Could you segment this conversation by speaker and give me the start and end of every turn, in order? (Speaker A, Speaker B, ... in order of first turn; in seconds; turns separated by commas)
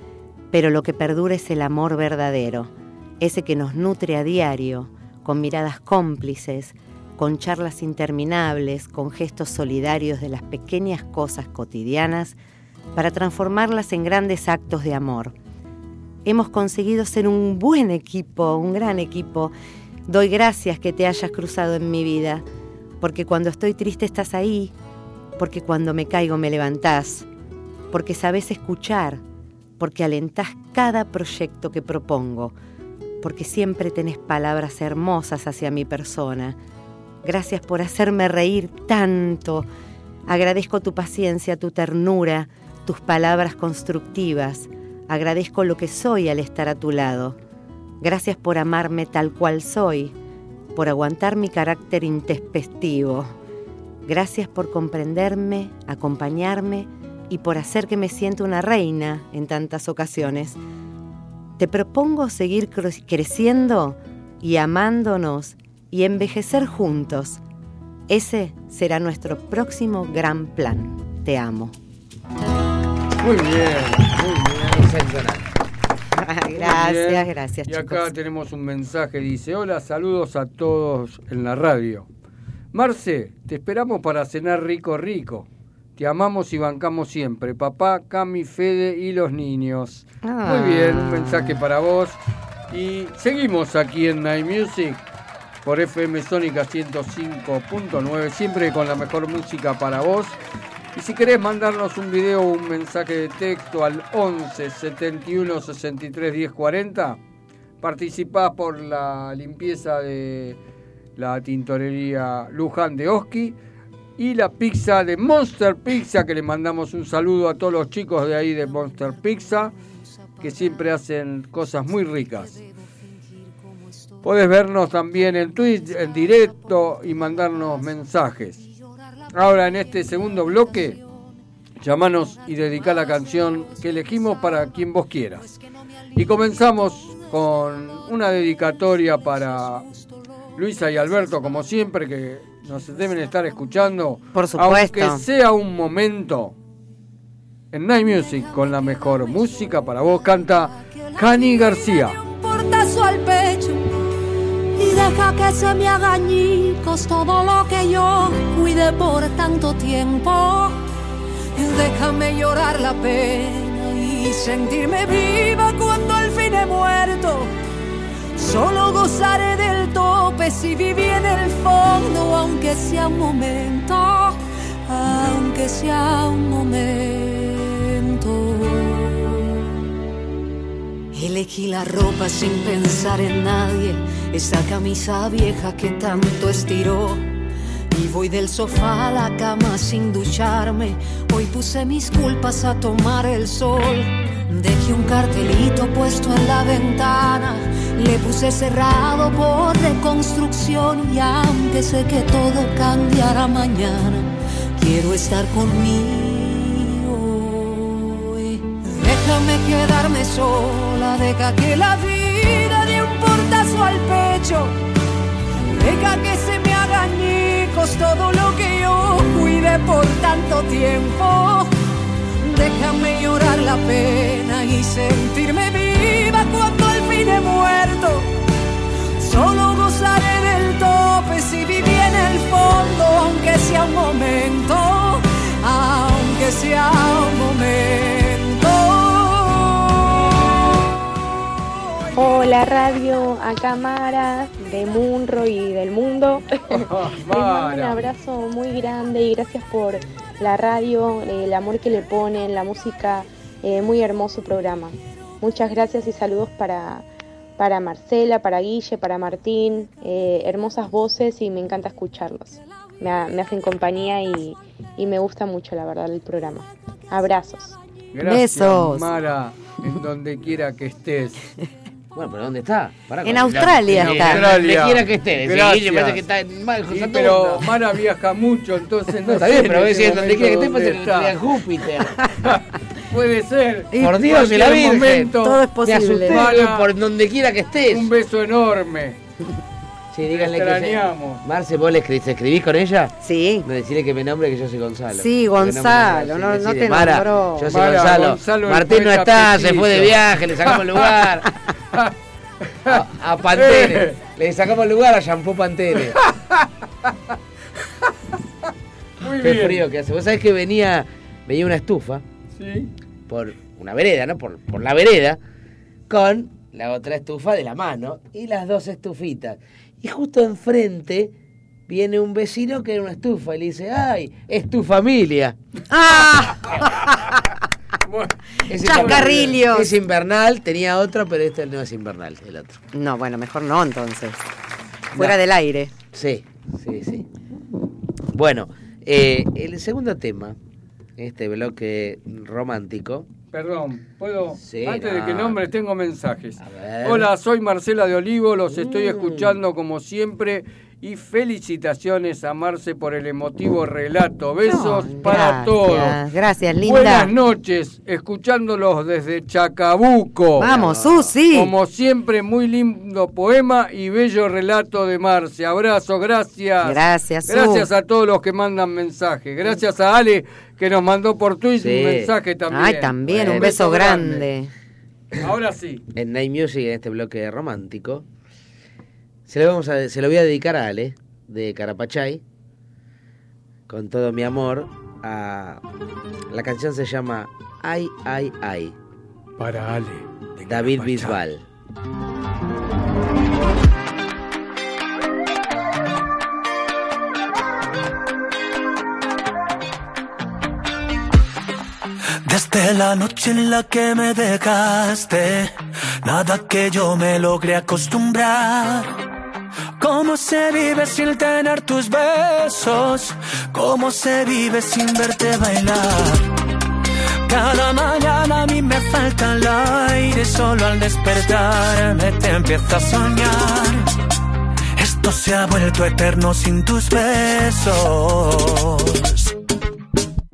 Speaker A: 0.5-12.4, Speaker A: 12.9-15.3, Speaker A: 16.2-19.5, Speaker A: 20.1-22.4, Speaker A: 23.0-24.7, Speaker A: 25.4-27.3, Speaker A: 27.9-29.2, Speaker A: 29.8-32.5, Speaker A: 33.2-36.6, Speaker A: 37.2-39.7, Speaker A: 40.3-47.4, Speaker A: 48.0-50.1, Speaker A: 50.7-53.3, Speaker A: 54.1-60.6, Speaker A: 61.6-67.4, Speaker A: 68.1-71.8, Speaker B: 73.2-74.3, Speaker C: 74.2-75.4, Speaker A: 76.2-78.1, Speaker B: 76.6-82.1, Speaker B: 82.7-92.2, Speaker A: 90.2-91.6, Speaker B: 92.7-95.0, Speaker B: 95.6-100.4, Speaker B: 101.0-107.2, Speaker B: 107.8-110.6, Speaker B: 111.2-113.6, Speaker B: 114.2-119.7, Speaker B: 120.4-122.6, Speaker B: 124.2-128.7, Speaker B: 129.3-131.0, Speaker B: 131.8-135.5, Speaker B: 136.2-139.9, Speaker B: 140.6-146.6, Speaker A: 144.3-145.2, Speaker B: 147.7-152.2, Speaker D: 151.9-153.9, Speaker D: 154.8-160.8, Speaker D: 161.6-167.5, Speaker D: 168.3-179.4, Speaker D: 181.1-187.3, Speaker D: 187.9-214.7, Speaker D: 215.6-221.7, Speaker D: 222.4-228.3, Speaker D: 229.2-240.2, Speaker E: 242.1-267.8, Speaker B: 246.7-248.0, Speaker B: 268.1-271.5, Speaker A: 268.2-269.1, Speaker C: 272.1-277.7, Speaker A: 273.2-274.5, Speaker B: 274.0-276.2, Speaker B: 276.9-281.3, Speaker C: 279.3-282.2, Speaker B: 282.4-285.6, Speaker C: 283.9-288.1, Speaker A: 285.3-286.5, Speaker B: 286.3-286.9, Speaker B: 287.9-289.2, Speaker C: 290.1-293.1, Speaker B: 290.3-291.4, Speaker A: 293.2-293.7, Speaker C: 293.6-301.5, Speaker A: 295.1-297.7, Speaker B: 297.7-301.1, Speaker C: 302.9-306.2, Speaker B: 303.5-304.2, Speaker B: 306.3-306.6, Speaker B: 309.2-309.8, Speaker C: 309.4-312.2, Speaker B: 312.6-312.9, Speaker C: 313.3-315.4, Speaker C: 316.1-321.3, Speaker C: 321.9-325.6, Speaker A: 325.9-327.4, Speaker B: 328.1-328.4, Speaker C: 328.7-332.8, Speaker A: 328.8-329.9, Speaker B: 328.9-329.6, Speaker A: 332.9-334.4, Speaker A: 335.1-335.9, Speaker C: 336.1-337.3, Speaker C: 338.3-340.6, Speaker C: 341.2-343.3, Speaker B: 343.5-356.2, Speaker C: 344.6-345.6, Speaker C: 346.6-347.3, Speaker C: 348.7-349.5, Speaker A: 354.6-357.3, Speaker B: 356.9-360.8, Speaker C: 360.6-361.3, Speaker A: 360.6-361.7, Speaker B: 361.5-374.5, Speaker A: 366.8-367.9, Speaker C: 371.8-372.3, Speaker A: 372.7-374.7, Speaker C: 373.3-373.9, Speaker B: 375.4-376.0, Speaker C: 376.1-378.2, Speaker C: 379.5-382.4, Speaker C: 383.9-385.8, Speaker C: 386.5-388.9, Speaker B: 389.6-391.4, Speaker C: 390.7-391.6, Speaker F: 402.4-409.1, Speaker F: 410.0-416.5, Speaker F: 417.5-424.1, Speaker F: 425.0-429.4